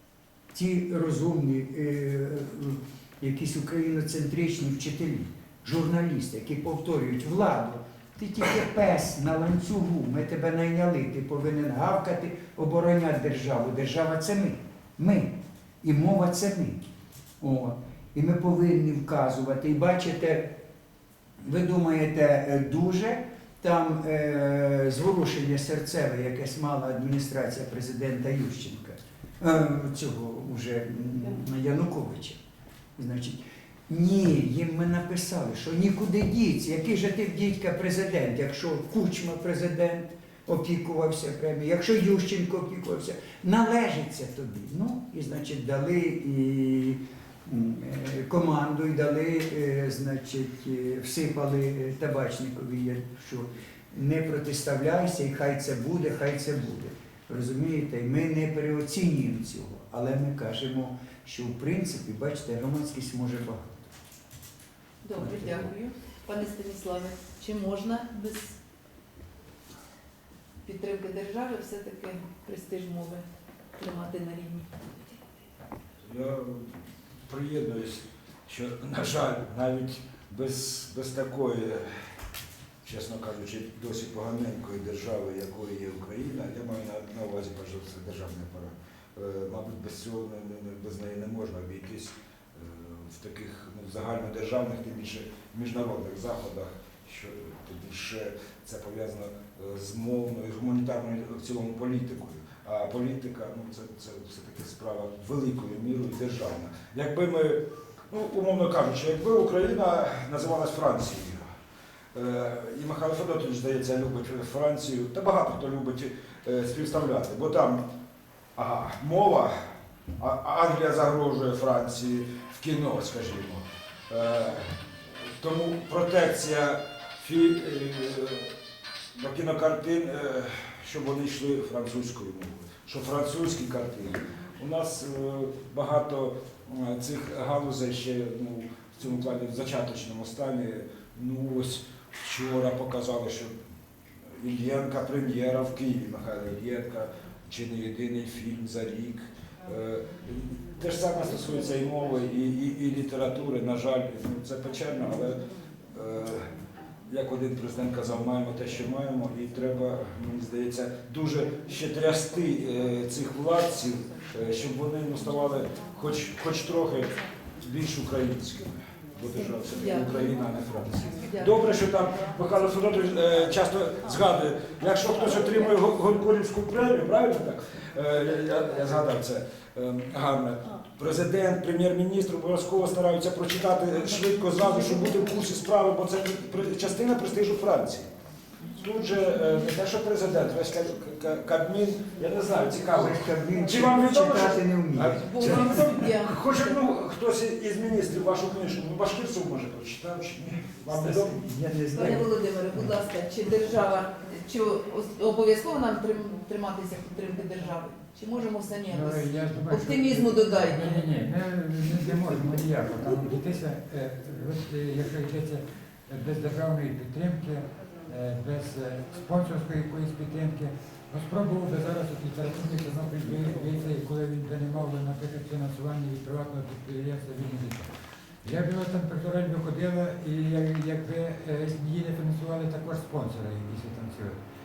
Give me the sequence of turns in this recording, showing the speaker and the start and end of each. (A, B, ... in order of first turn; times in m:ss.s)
0:00.5-0:16.8 A
0:17.4-0:20.6 A
0:21.4-0:32.4 A
0:33.0-1:03.9 A
1:05.0-1:08.6 B
1:05.2-1:05.6 A
1:10.6-1:13.2 B
1:13.8-1:15.2 B
1:16.0-1:21.9 C
1:22.8-1:51.5 C
1:52.1-1:57.9 C
1:58.6-1:59.5 C
2:00.2-2:04.8 C
2:05.3-2:08.5 C
2:09.2-2:23.6 C
2:24.4-2:36.5 C
2:37.1-3:08.1 C
2:49.7-2:50.2 B
2:51.2-2:51.6 B
3:08.7-3:21.4 C
3:12.9-3:15.8 A
3:15.2-3:16.4 B
3:20.9-3:22.3 A
3:22.0-3:31.0 B
3:28.9-3:47.9 D
3:48.4-3:54.4 D